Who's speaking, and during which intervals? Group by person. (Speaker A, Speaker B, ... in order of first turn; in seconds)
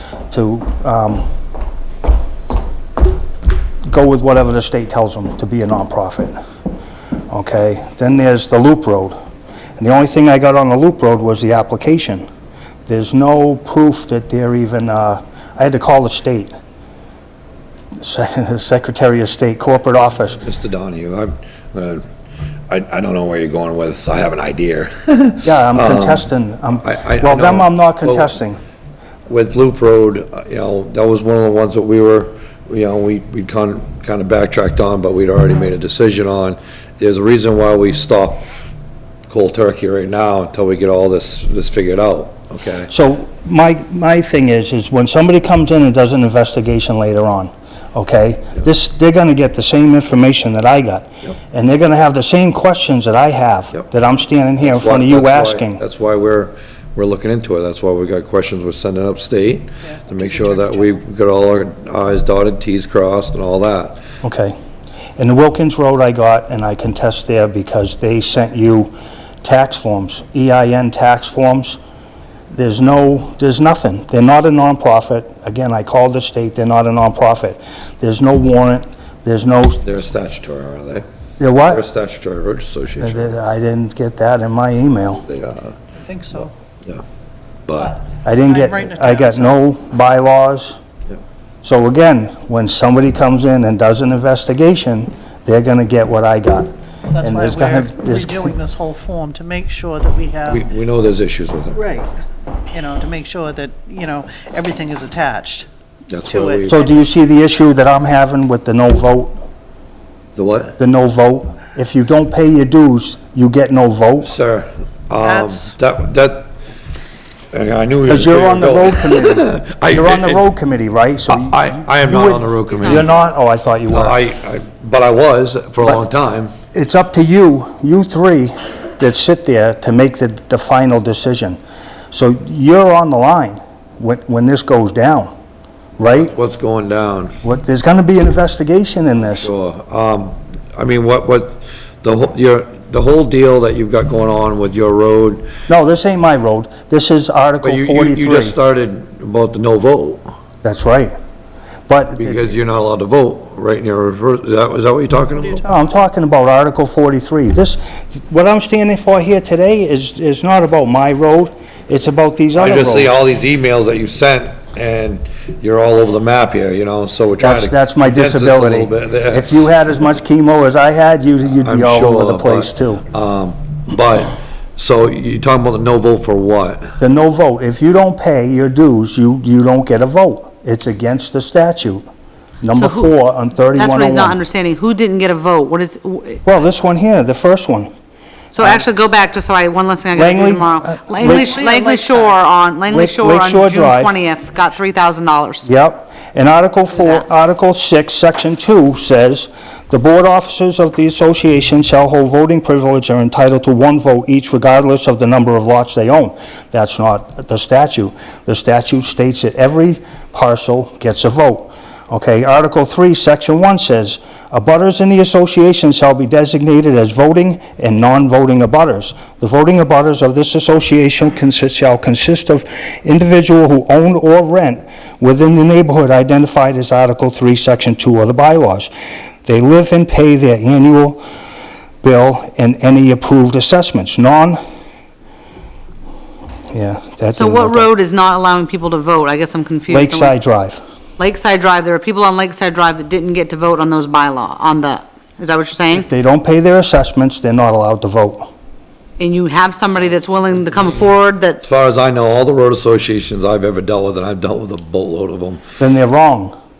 Speaker A: 0.3-1.3, 3.9-6.3, 7.3-9.2, 9.8-12.2, 12.9-16.5, 17.9-20.4, 25.4-28.6, 42.9-55.8, 64.2-64.5, 65.2-71.8, 72.5-79.8, 81.4-81.8, 83.0-85.2, 88.2-90.8, 91.6-98.5, 106.7-109.4, 110.8-114.3, 118.0-124.2, 126.7-131.6, 132.1-135.3, 136.0-136.3, 137.4-139.5, 145.7-148.6, 150.6-151.2, 151.9-152.6, 155.6-163.2, 167.4-173.0, 177.0-182.1, 182.6-184.4, 186.4-187.9, 190.2-191.5, 192.9-194.1, 195.7-228.9, 229.4-231.2, 232.0-234.6, 236.7-237.9, 239.9-240.8, 245.9-248.5, 255.8-256.6
Speaker B: 20.4-22.0, 22.7-26.2, 26.8-28.3, 29.3-38.5, 39.3-42.9, 54.6-64.0, 79.8-81.0, 81.6-83.3, 85.3-85.8, 87.7-88.0, 100.5-101.8, 106.1-106.8, 110.3-110.8, 114.2-116.5, 117.5-120.5, 121.3-123.1, 123.9-126.5, 136.3-137.4, 139.4-145.5, 147.6-150.2, 152.2-155.6, 162.6-169.6, 171.6-176.9, 251.6-255.6
Speaker C: 60.1-60.8, 86.0-86.5, 87.8-89.6, 97.1-100.6, 101.8-102.1, 102.7-105.7, 106.2-106.8, 115.2-115.8, 191.2-192.4
Speaker D: 122.7-123.1, 182.7-183.1, 183.7-186.4, 188.6-195.7, 237.4-240.4, 241.2-246.1, 249.2-251.6